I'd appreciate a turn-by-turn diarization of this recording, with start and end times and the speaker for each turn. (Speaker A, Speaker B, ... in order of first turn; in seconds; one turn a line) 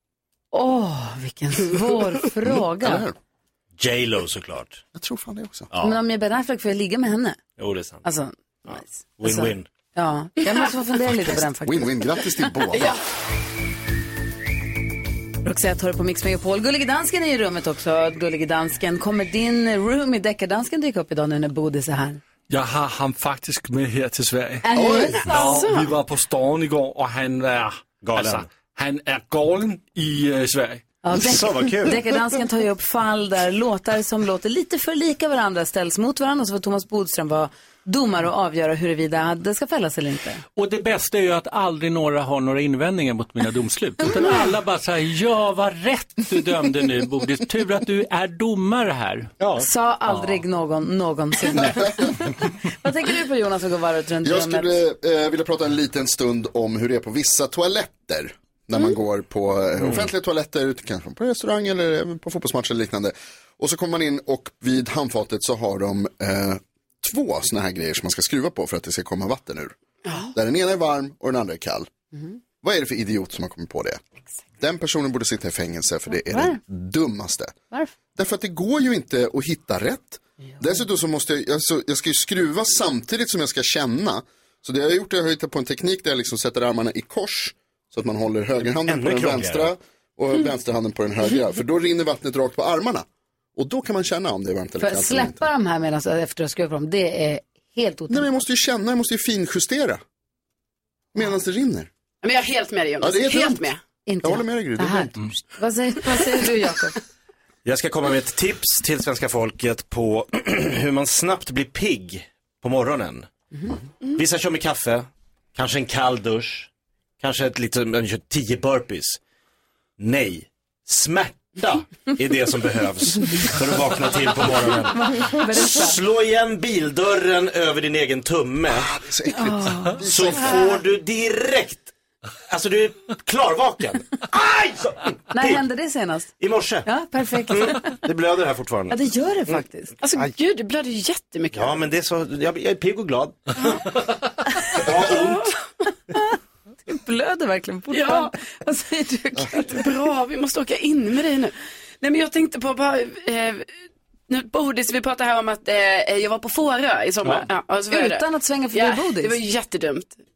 Speaker A: 0.5-3.0
Speaker B: 2.7-3.1
Speaker C: 3.8-4.8
Speaker B: 4.9-5.7
Speaker C: 5.7-6.0
Speaker A: 5.8-7.4
Speaker C: 7.6-8.0
Speaker A: 8.0-12.2
Speaker C: 8.7-9.7
Speaker B: 11.2-12.9
Speaker A: 15.4-22.2
Speaker D: 22.5-24.7
Speaker A: 24.6-25.3
Speaker B: 24.7-25.2
Speaker E: 24.9-25.9
Speaker D: 25.2-30.8
Speaker C: 28.0-28.5
Speaker A: 31.0-40.4
Speaker C: 31.1-32.0
Speaker F: 40.5-49.3
Speaker C: 49.4-49.6
Speaker A: 49.6-54.8
Speaker B: 54.2-69.7
Speaker B: 70.3-71.9
Speaker B: 72.6-74.0
Speaker B: 74.6-77.6
Speaker A: 76.3-76.6
Speaker B: 78.1-95.5
Speaker C: 88.9-89.7
Speaker A: 94.8-98.4
Speaker B: 98.1-100.0
Speaker B: 101.1-101.9
Speaker E: 102.2-103.8
Speaker B: 103.0-103.7
Speaker A: 104.0-107.0
Speaker B: 104.2-105.2
Speaker C: 107.6-113.3
Speaker C: 114.2-116.7
Speaker C: 117.2-119.2
Speaker C: 120.0-128.9
Speaker A: 124.9-126.0
Speaker B: 128.9-130.6
Speaker A: 129.3-130.6
Speaker C: 130.0-131.9
Speaker C: 132.5-135.6
Speaker A: 135.3-136.3
Speaker C: 136.4-136.9
Speaker A: 136.8-138.0
Speaker C: 137.5-139.6
Speaker A: 138.9-139.9
Speaker E: 140.0-141.8
Speaker C: 141.5-143.5
Speaker C: 144.7-145.5
Speaker E: 144.9-145.5
Speaker A: 146.9-149.8
Speaker E: 147.9-148.3
Speaker E: 149.5-153.7
Speaker E: 154.3-160.2
Speaker A: 157.9-159.4